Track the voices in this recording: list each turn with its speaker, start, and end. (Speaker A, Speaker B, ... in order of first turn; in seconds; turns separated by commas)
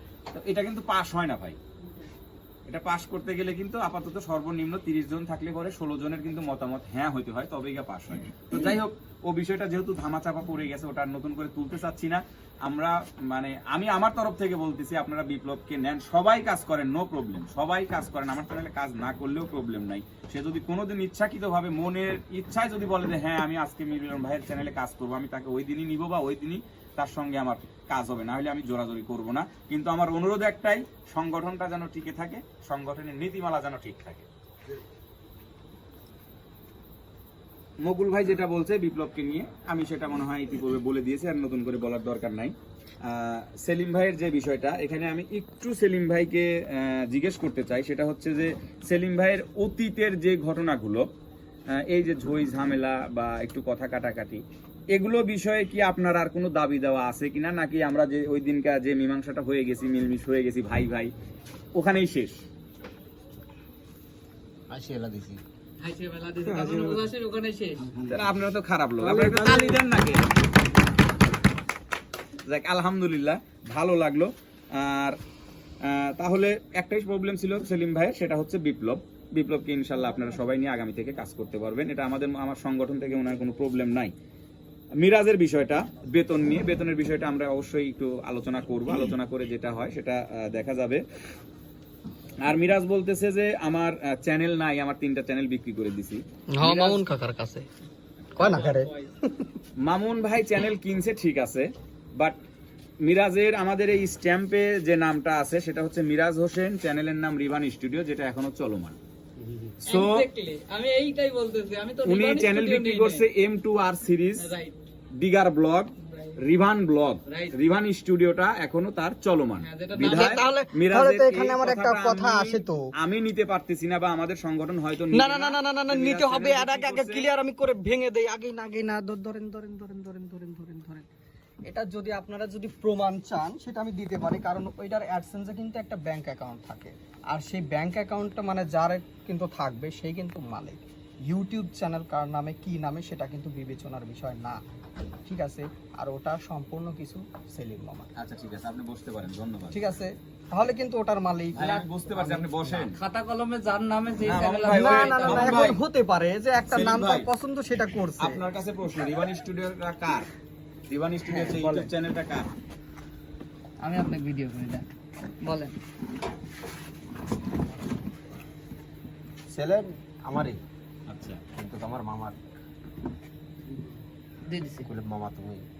Speaker A: 0.3-1.6, Speaker A: 2.7-34.3, Speaker A: 37.8-51.1, Speaker A: 51.8-54.4, Speaker A: 54.9-61.1, Speaker A: 61.8-62.4, Speaker B: 64.7-65.4, Speaker C: 65.8-67.9, Speaker A: 68.1-70.3, Speaker B: 69.0-69.7, Speaker A: 72.5-75.2, Speaker A: 75.8-84.1, Speaker A: 85.0-91.0, Speaker A: 92.4-97.0, Speaker D: 96.6-97.7, Speaker C: 98.4-99.1, Speaker D: 98.4-99.5, Speaker A: 99.8-102.4, Speaker A: 103.0-109.0, Speaker A: 109.8-110.3, Speaker C: 109.8-113.3, Speaker A: 112.0-114.5, Speaker C: 114.4-114.8, Speaker A: 115.2-127.3, Speaker C: 116.1-116.4, Speaker C: 117.3-117.6, Speaker C: 119.6-120.5, Speaker D: 120.0-122.8, Speaker D: 125.1-131.1, Speaker D: 131.7-144.6, Speaker D: 145.3-148.1, Speaker A: 148.2-149.9, Speaker D: 149.7-152.7, Speaker A: 151.5-153.0, Speaker C: 152.9-155.6, Speaker A: 154.2-155.8, Speaker D: 154.7-158.4, Speaker A: 156.7-157.3, Speaker A: 158.2-160.3, Speaker A: 160.9-162.5, Speaker D: 161.4-161.9, Speaker C: 163.8-164.9, Speaker C: 165.5-165.7, Speaker B: 169.5-170.6, Speaker A: 171.1-171.4, Speaker B: 171.5-172.4, Speaker C: 174.5-174.9, Speaker B: 174.8-175.7